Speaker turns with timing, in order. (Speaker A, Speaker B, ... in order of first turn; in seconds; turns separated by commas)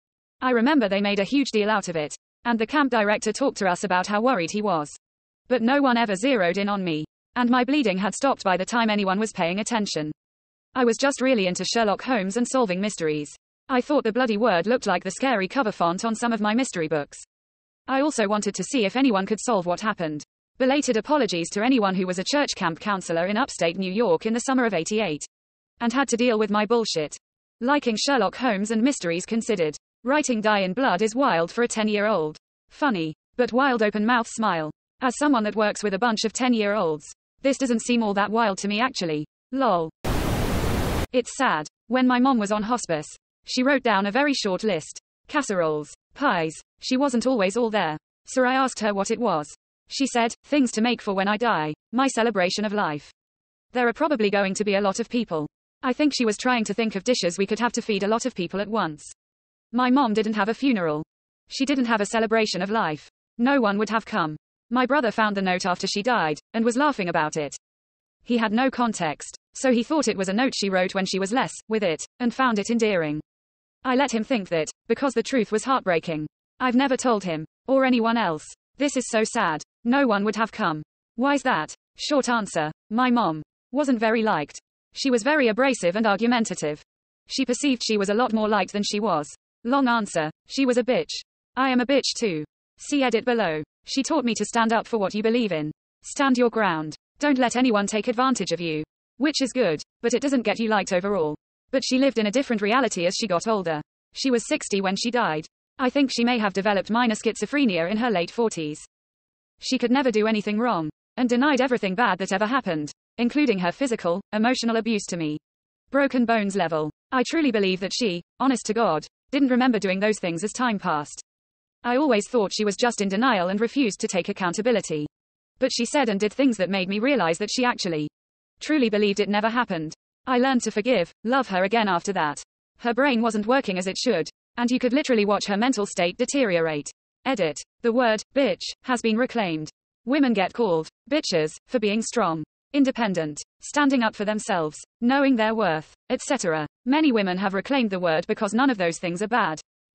Speaker A: 0.4-10.1, Speaker A: 10.7-17.2, Speaker A: 17.9-25.3, Speaker A: 25.8-39.9, Speaker A: 41.1-53.1, Speaker A: 53.7-59.1, Speaker A: 59.7-67.6, Speaker A: 68.2-73.2, Speaker A: 73.8-108.9, Speaker A: 109.6-121.2, Speaker A: 121.8-149.6